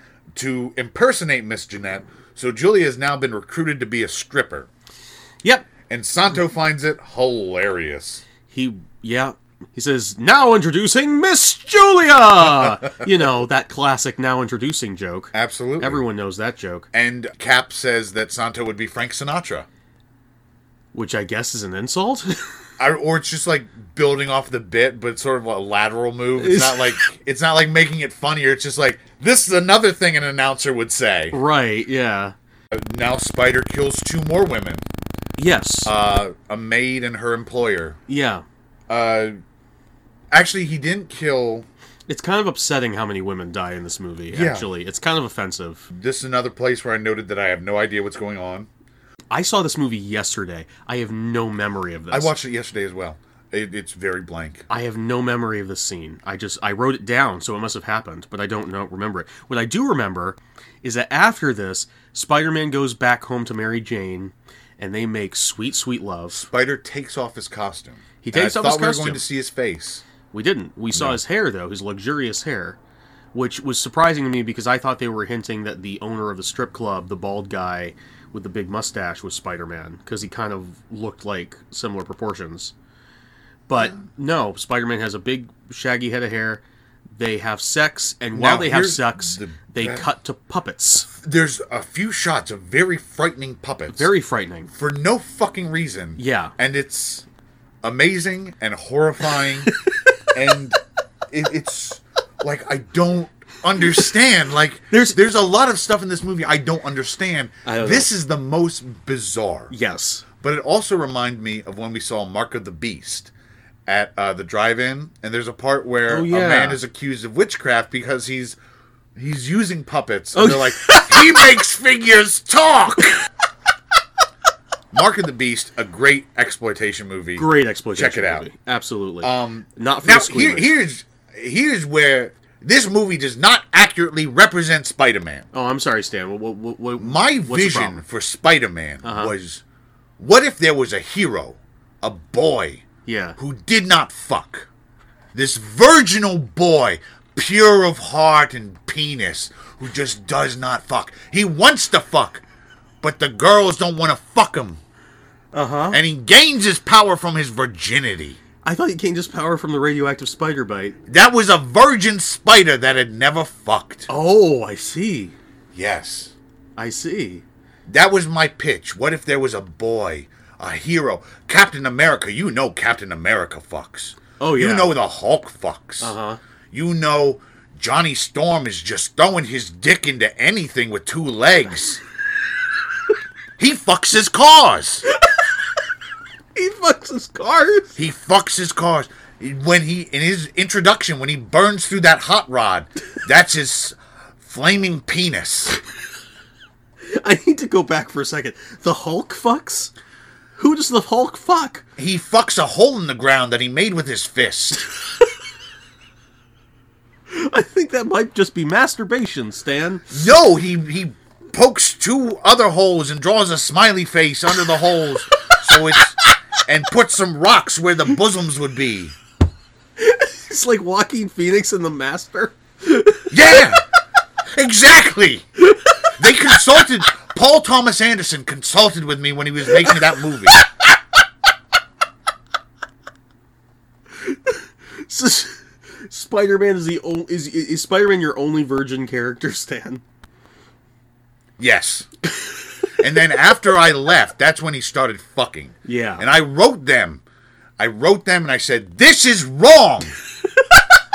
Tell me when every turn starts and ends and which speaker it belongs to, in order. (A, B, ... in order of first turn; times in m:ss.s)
0:00.3-0:04.7 A
0:05.4-0:05.7 B
0:05.9-0:08.2 A
0:08.5-0:16.9 B
0:15.3-0:16.0 A
0:16.9-0:19.7 A
0:20.9-0:22.5 B
0:22.8-0:31.4 A
0:26.4-0:27.0 B
0:31.3-0:32.3 B
0:32.7-0:34.8 A
0:35.4-0:35.9 B
0:35.8-0:38.0 A
0:38.1-0:38.4 B
0:38.9-0:39.4 A
0:40.3-0:41.7 A
0:42.1-0:45.9 B
0:44.3-0:44.7 A
0:45.9-0:48.7 A
0:49.3-0:52.3 B
0:52.1-0:54.6 A
0:54.7-1:06.5 B
1:06.4-1:10.0 A
1:08.2-1:09.2 B
1:10.3-1:12.8 B
1:10.9-1:11.2 A
1:13.3-1:22.7 B
1:23.7-1:26.6 B
1:27.1-1:31.1 B
1:28.3-1:30.0 A
1:31.1-1:34.1 A
1:33.9-1:34.7 B
1:34.7-1:37.2 A
1:36.2-1:36.5 B
1:37.8-1:39.7 A
1:39.4-1:40.0 B
1:40.3-1:40.8 A
1:41.3-1:49.7 A
1:44.9-1:45.2 B
1:47.6-1:48.1 B
1:49.7-1:50.2 B
1:50.4-1:53.3 A
1:53.9-1:58.6 A
1:56.1-1:56.8 B
1:59.2-2:03.2 A
2:00.3-2:01.5 B
2:04.9-2:08.5 A
2:07.4-2:10.7 B
2:09.2-2:15.5 A
2:15.5-2:18.0 B
2:17.0-2:19.6 A
2:19.0-2:19.3 B
2:20.2-2:22.8 A
2:23.0-2:23.4 B
2:23.4-2:24.7 A
2:25.3-2:32.4 A
2:33.0-2:34.8 A
2:35.5-2:36.0 B
2:35.9-2:38.4 A
2:38.6-2:41.0 B
2:41.1-2:44.1 A
2:44.1-2:45.3 B
2:45.7-2:46.3 A
2:46.8-2:47.4 B
2:47.9-2:56.1 A
2:54.4-2:55.0 B
2:56.0-2:56.4 B
2:56.7-3:02.0 A
3:03.6-3:05.0 A
3:05.2-3:05.6 B
3:06.5-3:07.9 B
3:08.0-3:15.8 A
3:17.1-3:19.9 B
3:20.6-3:21.8 B
3:22.0-3:24.9 A
3:27.3-3:30.0 B
3:30.1-3:39.2 A
3:40.0-3:43.4 B
3:43.3-3:43.8 A
3:44.6-3:45.5 A
3:46.2-3:50.6 A
3:54.1-4:00.0 B
4:01.6-4:02.1 A
4:03.0-4:07.2 A
4:05.8-4:06.2 B
4:07.8-4:10.2 A